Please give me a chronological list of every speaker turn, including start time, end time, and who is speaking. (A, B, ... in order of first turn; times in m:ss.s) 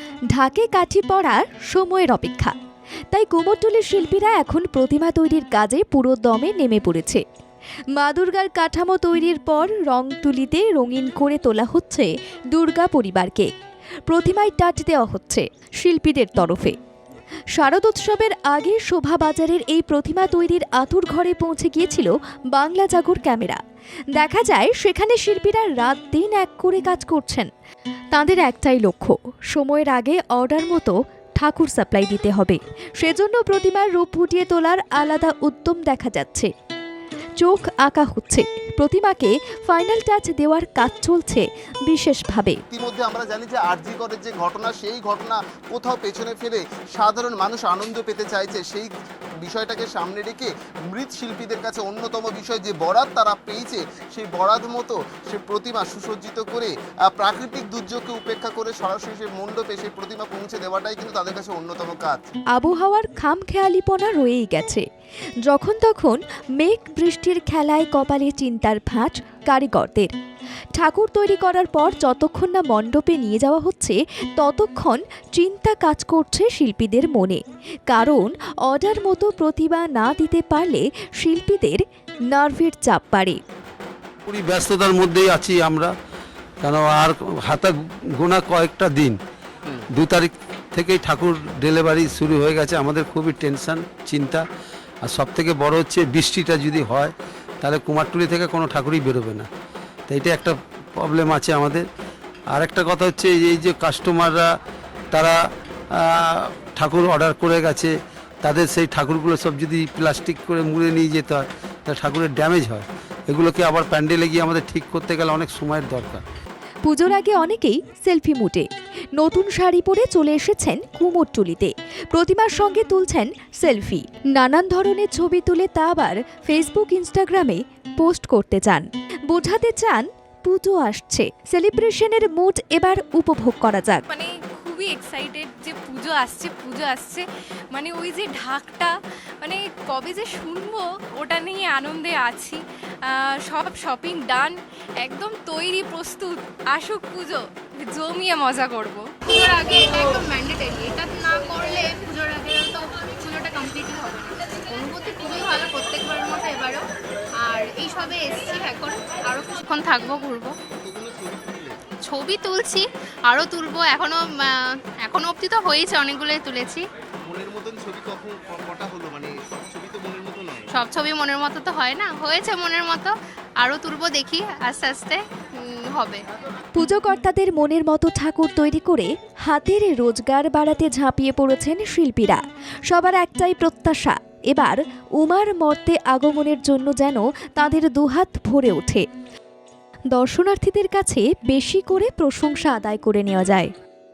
0:00.3-0:02.5 A
0:03.1-0:07.2 A
0:08.0-0:13.5 A
0:14.1-0:16.8 A
0:17.6-0:23.6 A
0:24.2-0:27.5 A
0:28.1-0:36.5 A
0:37.4-0:42.6 A
0:42.7-0:48.9 B
0:49.4-1:02.3 B
1:02.5-1:04.8 A
1:05.5-1:10.1 A
1:10.8-1:23.4 A
1:24.3-1:25.9 C
1:26.6-1:29.2 C
1:29.9-1:34.4 C
1:35.0-1:39.5 C
1:40.1-1:41.9 C
1:42.5-1:44.5 C
1:45.9-1:56.2 C
1:56.8-2:14.0 A
2:14.1-2:29.1 D
2:29.3-2:36.9 E
2:37.4-2:40.6 E
2:40.8-2:41.8 B
2:42.0-2:46.8 E
2:47.3-2:50.7 B
2:50.7-2:56.2 E
2:56.8-3:09.1 A
3:10.1-3:13.7 A